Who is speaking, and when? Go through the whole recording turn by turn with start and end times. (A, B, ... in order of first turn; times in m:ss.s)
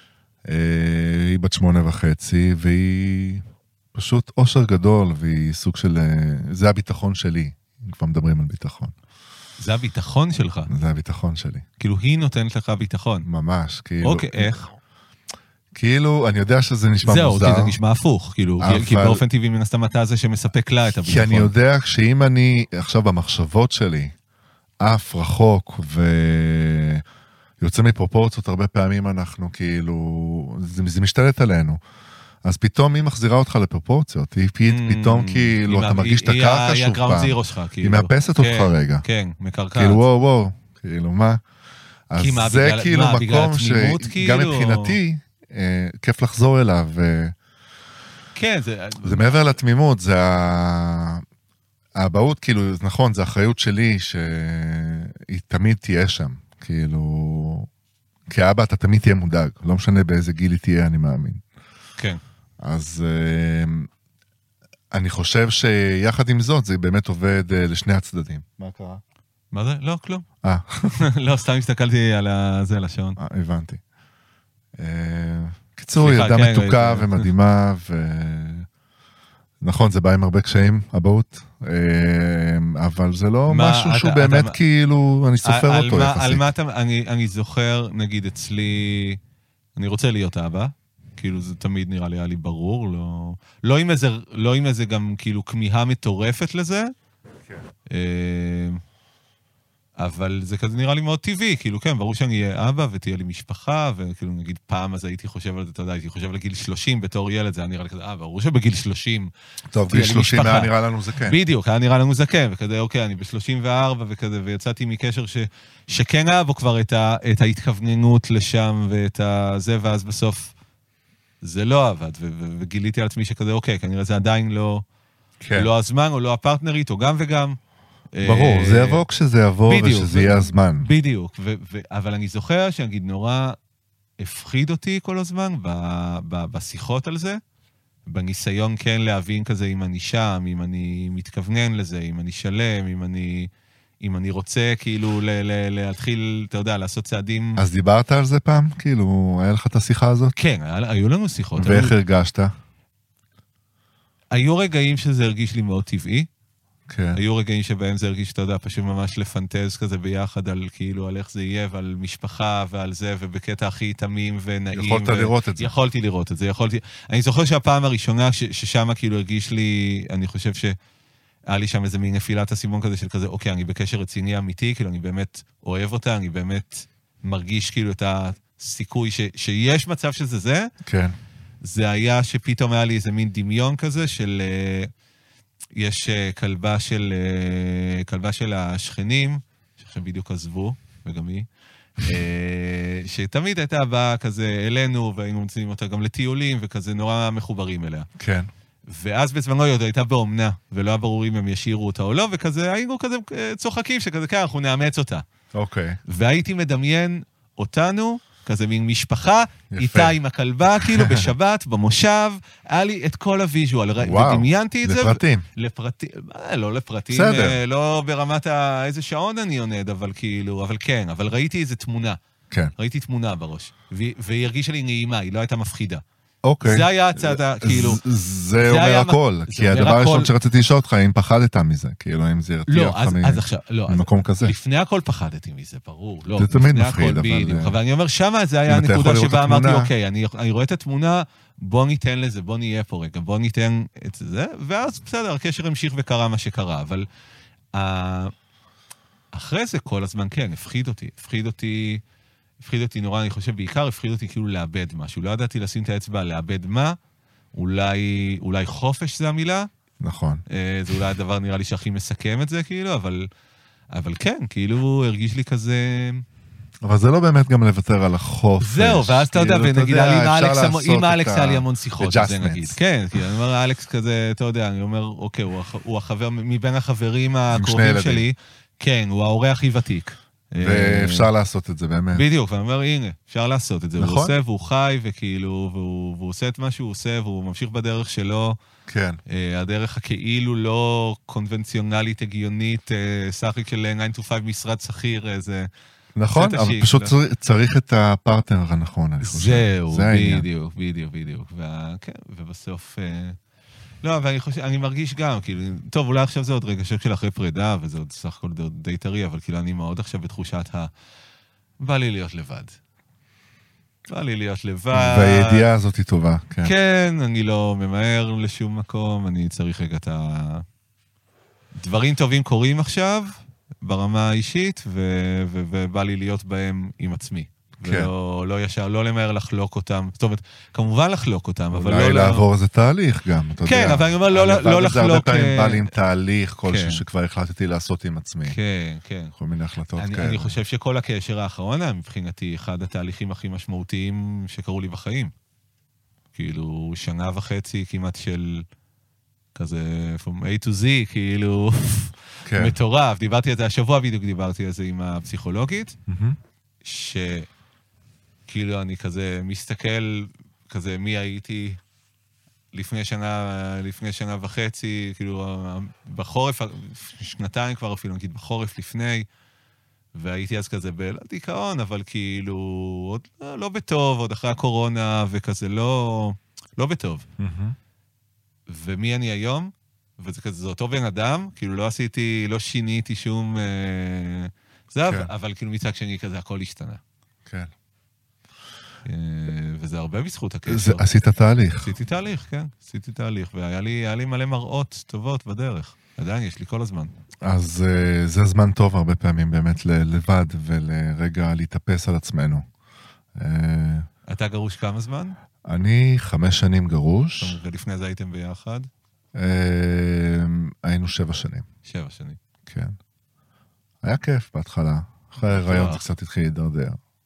0:00.5-0:08.9 A
0:09.6-0:10.7 B
0:10.7-0:11.6 A
0:11.8-0:13.3 B
0:13.2-0:14.6 A
0:14.0-0:14.7 B
0:15.8-0:17.8 A
0:17.0-0:21.5 B
0:18.6-0:19.2 A
0:21.0-0:24.1 A
0:24.8-0:27.0 A
0:27.6-0:31.8 A
0:32.4-0:39.0 A
0:34.6-0:40.0 B
0:39.8-0:41.4 A
0:42.1-0:47.4 A
0:42.2-0:45.0 B
0:48.4-0:49.3 B
0:49.0-0:51.2 A
0:52.0-0:57.7 A
0:58.3-1:01.4 A
1:02.6-1:03.9 A
1:04.9-1:09.0 A
1:09.5-1:10.3 B
1:10.4-1:11.0 A
1:10.9-1:13.2 B
1:13.2-1:13.8 A
1:14.8-1:18.7 A
1:16.0-1:17.3 B
1:19.6-1:26.5 A
1:23.5-1:24.6 B
1:25.4-1:29.2 B
1:29.8-1:36.9 B
1:37.9-1:38.8 B
1:40.0-2:00.5 B
1:49.7-1:51.4 A
2:01.4-2:04.8 B
2:05.4-2:05.7 A
2:05.5-2:07.6 B
2:08.1-2:09.0 B
2:08.2-2:10.9 A
2:09.7-2:13.6 B
2:14.2-2:17.4 B
2:18.1-2:23.5 B
2:24.0-2:27.6 B
2:27.6-2:30.3 A
2:30.4-2:32.0 B
2:31.6-2:32.5 A
2:34.3-2:36.3 B
2:36.9-2:37.2 A
2:37.1-2:50.8 B
2:44.7-2:45.7 A
2:51.5-3:00.7 B
3:00.8-3:01.1 A
3:01.6-3:04.9 B
3:05.8-3:11.5 B
3:12.0-3:18.1 B
3:18.2-3:18.5 A
3:18.9-3:25.2 B
3:25.5-3:26.0 A
3:26.1-3:42.2 B
3:29.7-3:30.2 A
3:30.8-3:31.3 A
3:34.0-3:35.5 A
3:37.1-3:37.6 A
3:42.8-3:46.0 B
3:46.4-3:54.5 A
3:46.6-3:48.0 B
3:48.6-3:50.3 B
3:52.7-4:07.1 B
3:56.4-3:57.8 A
3:58.7-3:59.9 A
4:07.8-4:08.3 B
4:09.3-4:12.0 B
4:12.6-4:17.0 B
4:17.5-4:19.7 B
4:20.0-4:20.4 A
4:20.5-4:23.3 B
4:23.9-4:26.2 B
4:26.8-4:32.8 A
4:28.6-4:41.3 B
4:37.5-4:38.2 A
4:40.6-4:42.2 A
4:42.1-4:48.6 B
4:44.0-4:44.4 A
4:48.9-4:49.2 A
4:49.3-4:55.7 B
4:56.2-5:00.5 A
4:56.3-4:57.1 B
4:59.2-5:03.4 B
5:04.0-5:10.9 B
5:11.8-5:12.8 B
5:14.1-5:15.7 B
5:14.9-5:16.7 A
5:16.6-5:20.6 B
5:21.8-5:32.4 B
5:27.8-5:28.1 A
5:31.7-5:38.6 A
5:33.6-5:35.9 B
5:36.7-5:37.0 B
5:38.5-5:39.4 B
5:39.4-5:40.6 A
5:40.0-5:45.3 B
5:46.3-5:48.7 B
5:49.6-5:56.0 B
5:52.4-5:52.8 A
5:56.1-5:56.4 A
5:56.8-5:57.5 B
5:58.5-6:01.8 B
6:02.7-6:09.3 B
6:10.2-6:17.3 B
6:17.4-6:17.8 A
6:18.7-6:27.0 B
6:25.0-6:25.3 A
6:29.0-6:31.1 B
6:30.7-6:31.9 A
6:31.8-6:37.1 B
6:37.4-6:42.6 A
6:43.4-6:44.1 A
6:44.3-6:45.4 B
6:45.6-6:47.6 A
6:47.4-6:48.9 B
6:49.4-6:51.7 A
6:51.8-6:52.4 B
6:52.7-6:53.0 A
6:54.0-6:57.0 A
6:55.5-6:56.1 B